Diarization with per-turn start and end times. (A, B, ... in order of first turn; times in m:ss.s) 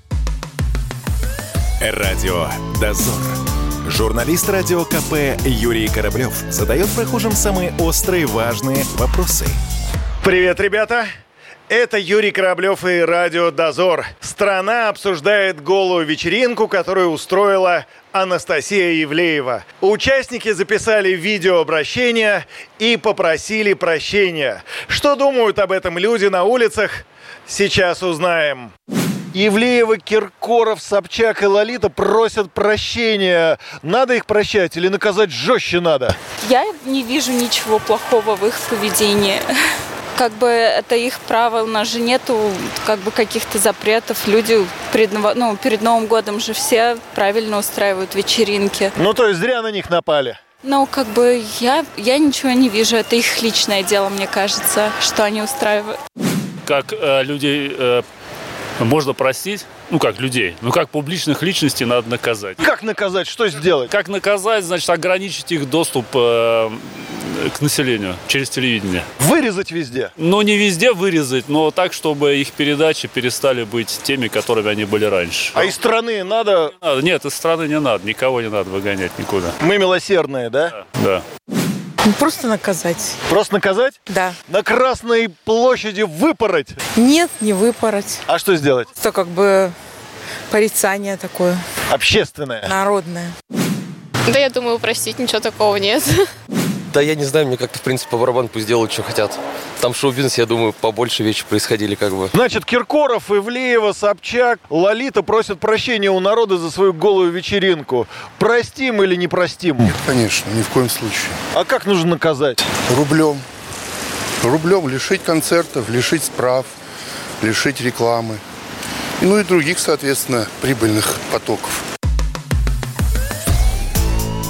0:01.8-0:09.6 A
0:10.2-0:11.1 B
0:11.7-0:28.7 B
0:29.3-0:36.2 B
0:36.4-0:39.5 C
0:40.1-0:49.0 C
0:49.0-0:50.4 B
0:50.6-0:56.0 C
0:56.6-0:58.0 D
0:58.8-1:02.6 D
1:02.6-1:03.9 B
1:03.9-1:09.0 D
1:09.2-1:10.1 B
1:10.2-1:15.7 D
1:15.5-1:16.7 B
1:16.8-1:19.6 D
1:19.6-1:20.7 B
1:20.8-1:21.2 D
1:22.0-1:23.2 E
1:23.3-1:26.8 B
1:24.1-1:24.4 E
1:27.0-1:28.2 E
1:28.3-1:28.9 B
1:29.0-1:29.8 E
1:30.5-1:31.6 E
1:31.9-1:32.7 B
1:32.7-1:33.3 E
1:34.3-1:36.2 F
1:36.9-1:42.3 G
1:42.3-1:49.9 B
1:49.8-1:51.4 H
1:51.5-1:52.7 B
1:52.8-1:53.5 H
1:54.4-1:56.8 H
1:57.4-1:58.4 H
1:59.2-2:01.8 H